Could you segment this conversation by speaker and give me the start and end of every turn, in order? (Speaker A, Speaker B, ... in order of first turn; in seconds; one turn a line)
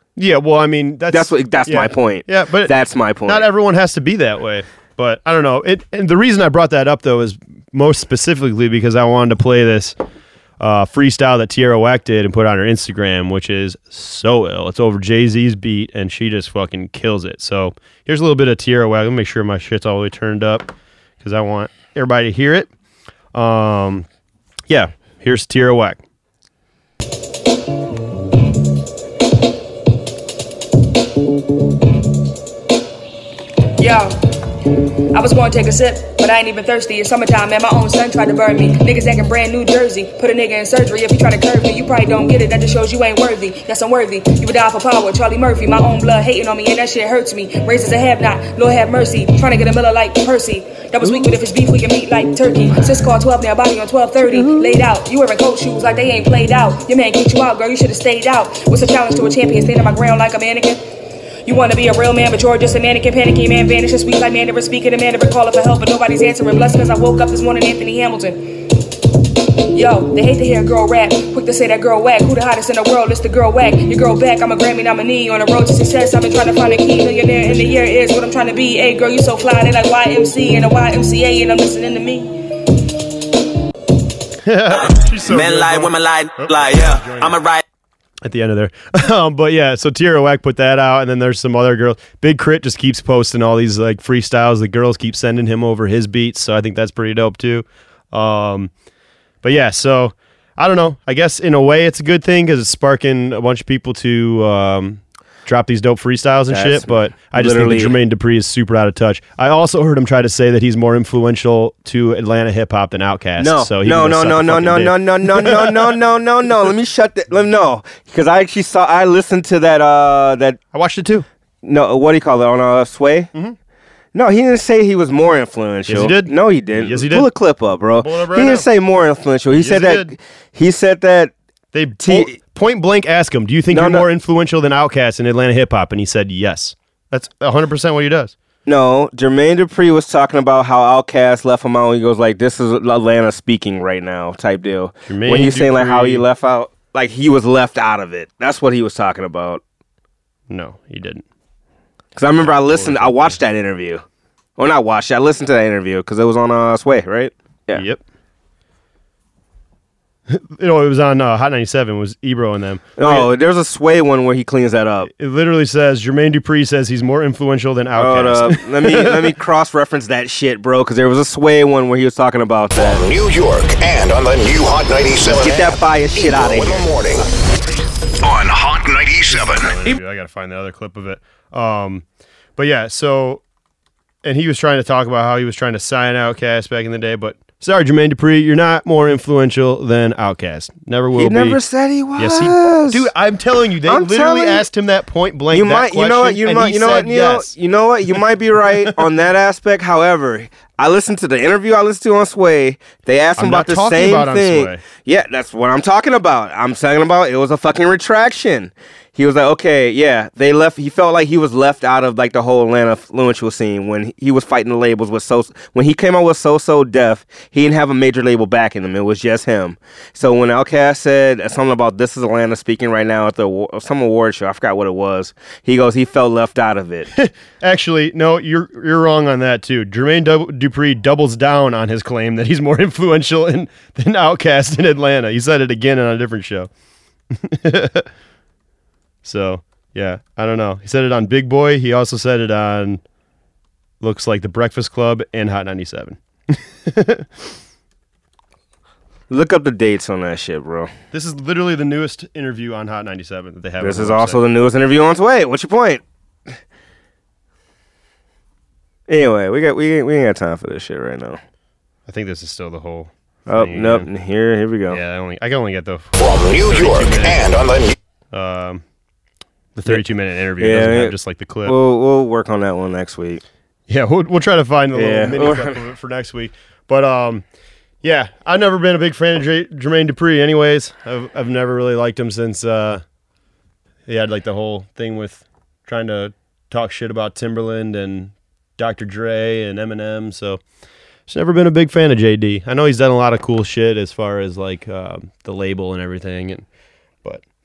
Speaker A: 0.1-10.0
Speaker B: 1.1-3.5
Speaker A: 10.6-22.7
Speaker A: 23.3-24.1
Speaker A: 24.7-26.0
Speaker C: 33.8-34.1
Speaker C: 35.1-60.8
Speaker C: 61.4-68.6
Speaker C: 69.7-82.4
Speaker A: 77.5-77.8
Speaker A: 84.4-87.4
Speaker D: 84.9-87.6
Speaker A: 88.2-98.7
Speaker A: 99.4-116.0
Speaker B: 106.5-108.0
Speaker B: 113.4-120.6
Speaker A: 120.7-121.2
Speaker B: 121.6-123.3
Speaker B: 124.1-131.3
Speaker A: 125.9-127.3
Speaker A: 128.0-128.7
Speaker A: 129.5-130.1
Speaker A: 131.7-138.3
Speaker B: 132.0-132.3
Speaker B: 133.7-134.0
Speaker B: 138.7-149.6
Speaker A: 145.1-146.2
Speaker A: 150.5-151.2
Speaker B: 152.2-154.0
Speaker A: 152.4-153.4
Speaker B: 154.6-157.8
Speaker A: 157.7-158.0
Speaker A: 160.3-163.3
Speaker B: 163.0-165.1
Speaker A: 165.1-169.3
Speaker B: 167.9-173.0
Speaker E: 172.8-177.3
Speaker B: 175.2-176.8
Speaker E: 178.2-179.7
Speaker A: 179.3-182.0
Speaker A: 182.6-183.4
Speaker A: 184.2-191.6
Speaker B: 191.2-193.1
Speaker A: 192.2-197.5
Speaker B: 193.9-194.7
Speaker B: 195.5-227.1
Speaker A: 203.4-204.8
Speaker A: 227.1-236.7
Speaker A: 237.3-238.1
Speaker A: 239.2-243.0
Speaker A: 244.0-247.3
Speaker B: 249.3-250.9
Speaker A: 251.1-254.4
Speaker B: 253.8-256.0
Speaker B: 259.1-261.4
Speaker A: 262.1-264.1
Speaker B: 263.5-265.0
Speaker A: 264.9-267.7
Speaker E: 266.2-267.9
Speaker A: 268.3-268.8
Speaker A: 269.7-271.8
Speaker B: 270.6-273.4
Speaker A: 273.9-277.4
Speaker B: 274.9-275.8
Speaker A: 278.0-283.0
Speaker A: 284.1-290.6
Speaker A: 291.3-296.6